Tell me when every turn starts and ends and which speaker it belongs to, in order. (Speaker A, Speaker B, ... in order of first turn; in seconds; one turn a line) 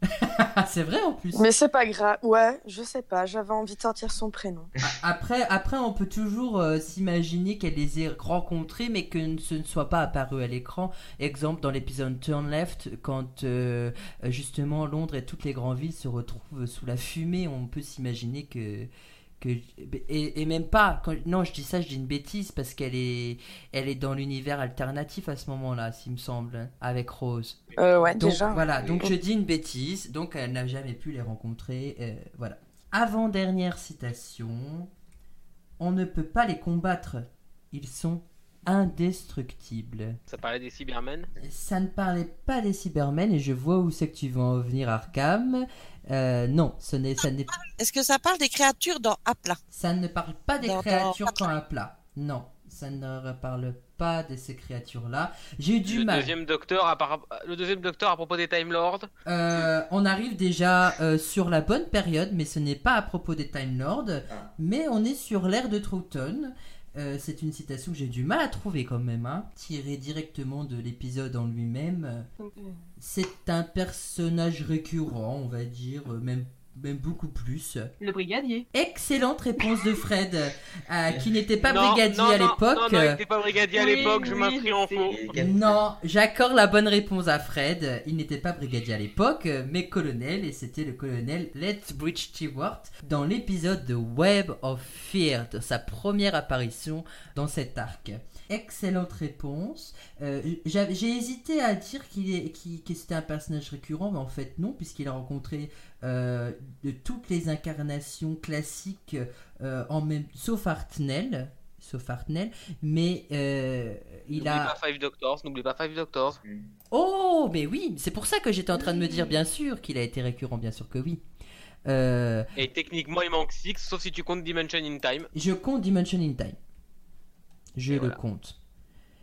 Speaker A: 0.2-1.5
Speaker B: 1.4-4.7
Speaker A: 4.8-27.6
Speaker B: 27.8-29.1
Speaker A: 28.2-34.9
Speaker A: 35.8-40.2
Speaker C: 40.3-41.3
Speaker A: 41.4-47.5
Speaker D: 47.5-49.6
Speaker A: 49.7-56.3
Speaker D: 50.6-51.5
Speaker C: 55.9-59.1
Speaker A: 59.3-72.3
Speaker E: 72.4-72.8
Speaker A: 73.0-77.9
Speaker E: 78.0-78.7
Speaker A: 78.7-83.2
Speaker F: 81.1-81.4
Speaker C: 81.7-85.2
Speaker E: 83.7-85.2
Speaker F: 84.0-84.3
Speaker F: 85.1-85.9
Speaker A: 85.3-114.8
Speaker C: 114.3-116.4
Speaker F: 116.4-116.7
Speaker A: 116.9-121.2
Speaker A: 121.9-122.5
Speaker C: 122.6-125.3
Speaker A: 125.3-126.6
Speaker A: 127.8-128.6
Speaker C: 127.9-128.2